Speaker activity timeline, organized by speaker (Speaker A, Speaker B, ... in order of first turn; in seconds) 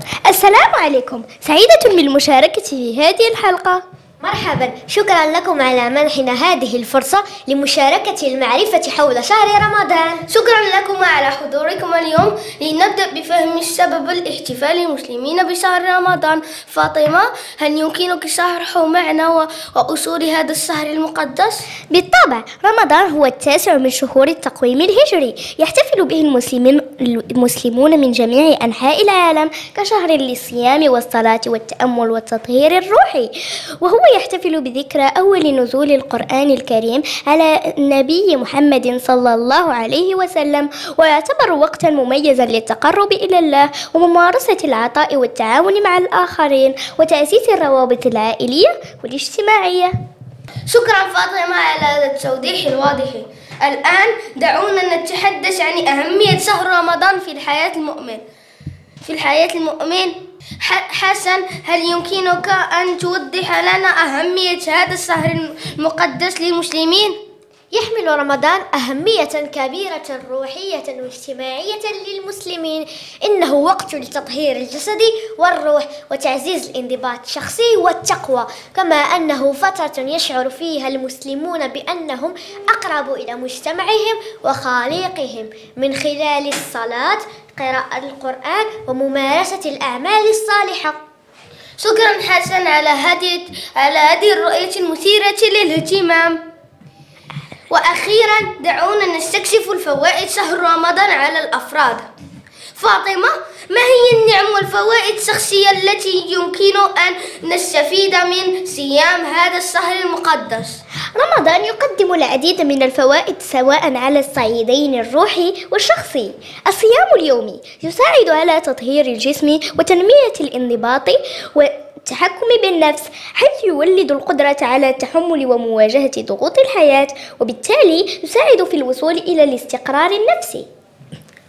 Speaker A: 0.2-3.8, 21.9-49.9, 111.2-130.7
Speaker B: 4.2-10.2, 67.7-91.0
Speaker C: 10.3-21.6, 50.7-58.2, 59.0-67.2, 91.8-96.4, 97.7-102.1, 102.8-110.8